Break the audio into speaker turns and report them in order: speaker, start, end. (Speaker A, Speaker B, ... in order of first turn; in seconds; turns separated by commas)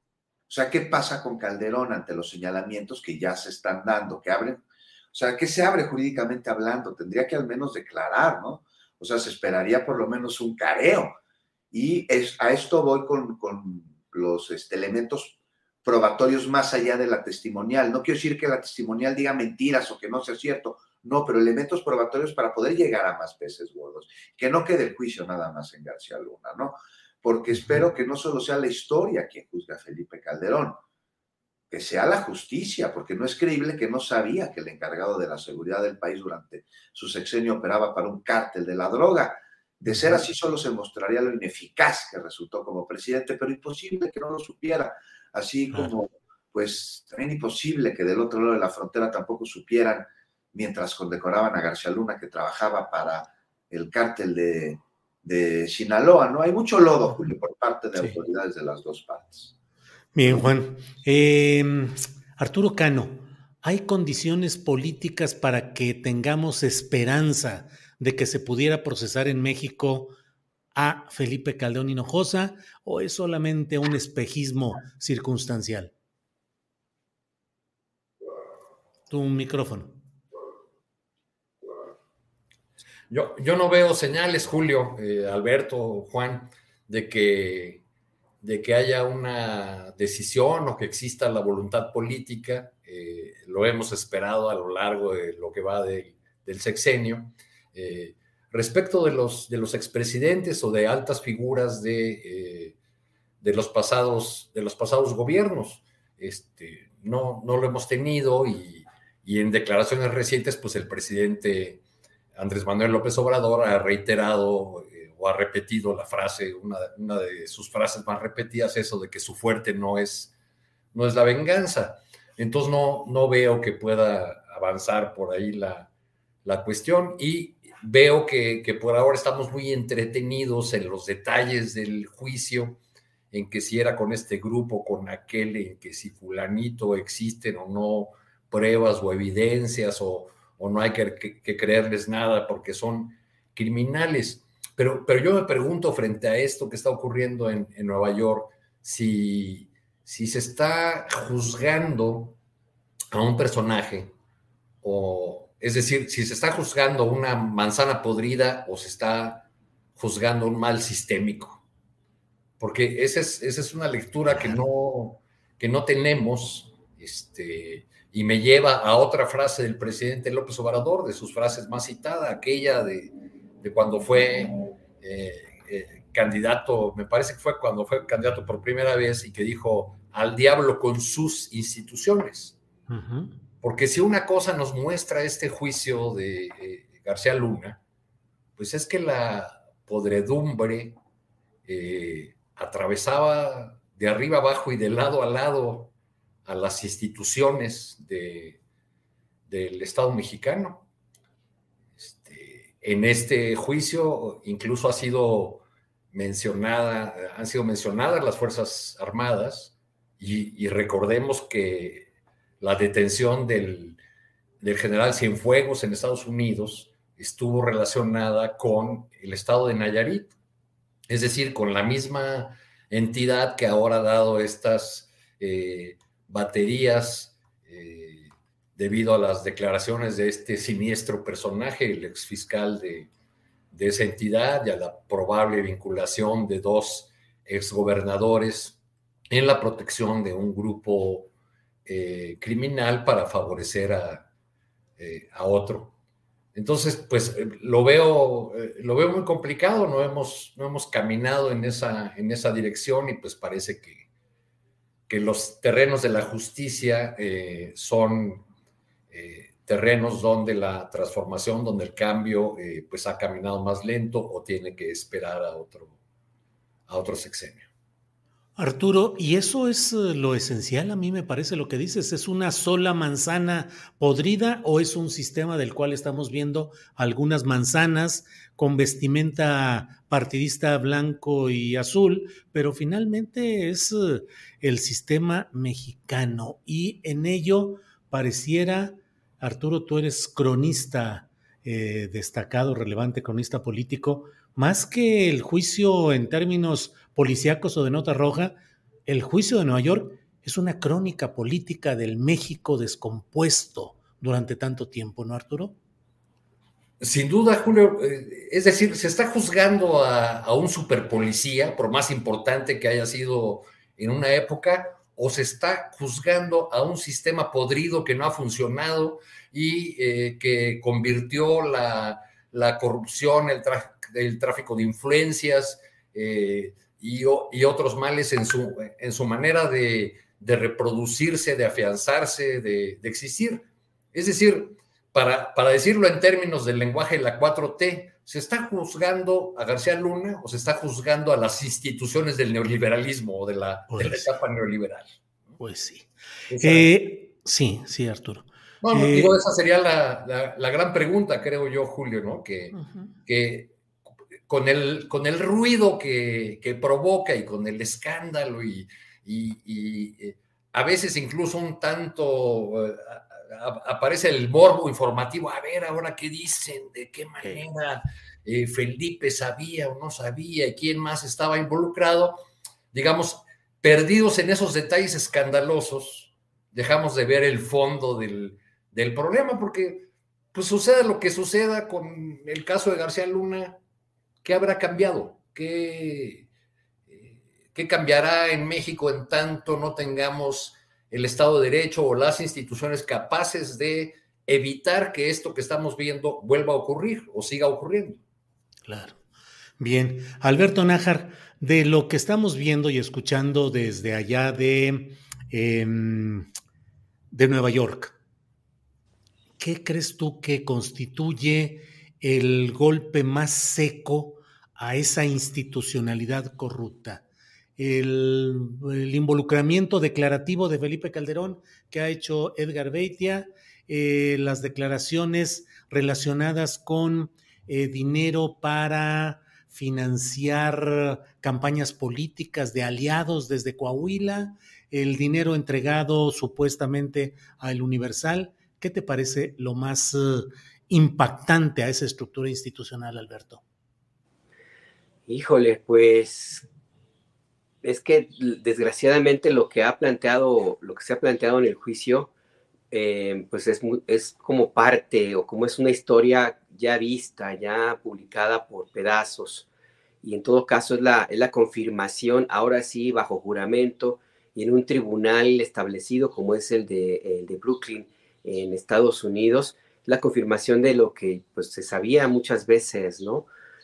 Speaker A: 0.5-4.6, Speaker A: 5.1-11.2, Speaker A: 11.7-30.8, Speaker B: 27.6-27.8, Speaker A: 31.7-59.5, Speaker B: 39.9-40.2, Speaker B: 60.1-70.2, Speaker B: 70.8-75.9, Speaker B: 79.1-80.0, Speaker C: 83.1-87.8, Speaker C: 88.4-102.8, Speaker C: 103.4-111.8, Speaker C: 112.4-120.3, Speaker C: 120.9-125.9, Speaker C: 126.5-132.8, Speaker C: 133.3-152.4, Speaker C: 153.1-154.1, Speaker C: 154.8-159.5, Speaker C: 160.0-161.6, Speaker C: 162.6-182.6, Speaker B: 182.9-183.3, Speaker C: 183.6-187.8, Speaker C: 188.6-191.0, Speaker C: 191.7-195.9, Speaker C: 196.5-198.6, Speaker C: 199.5-200.9, Speaker C: 202.0-212.1, Speaker C: 212.6-214.0, Speaker C: 214.6-220.3, Speaker C: 221.1-233.1, Speaker C: 233.7-238.8, Speaker C: 239.3-241.3, Speaker C: 241.9-244.3, Speaker C: 245.0-245.9, Speaker C: 246.6-254.1, Speaker C: 255.1-258.4, Speaker C: 259.1-265.9, Speaker C: 266.9-267.7, Speaker B: 268.6-305.8, Speaker C: 307.0-345.1, Speaker B: 343.9-344.3, Speaker B: 345.6-346.1, Speaker C: 346.5-346.9, Speaker B: 346.6-349.4, Speaker C: 348.8-353.7, Speaker B: 352.7-353.1, Speaker C: 354.5-372.4, Speaker C: 372.9-383.8, Speaker C: 384.4-386.5, Speaker C: 387.1-398.2, Speaker B: 398.9-399.2, Speaker B: 399.8-406.5, Speaker B: 407.3-408.1, Speaker B: 409.6-417.2, Speaker B: 417.8-443.6, Speaker D: 445.3-446.6, Speaker D: 447.8-452.3, Speaker D: 452.9-459.7, Speaker D: 460.2-473.5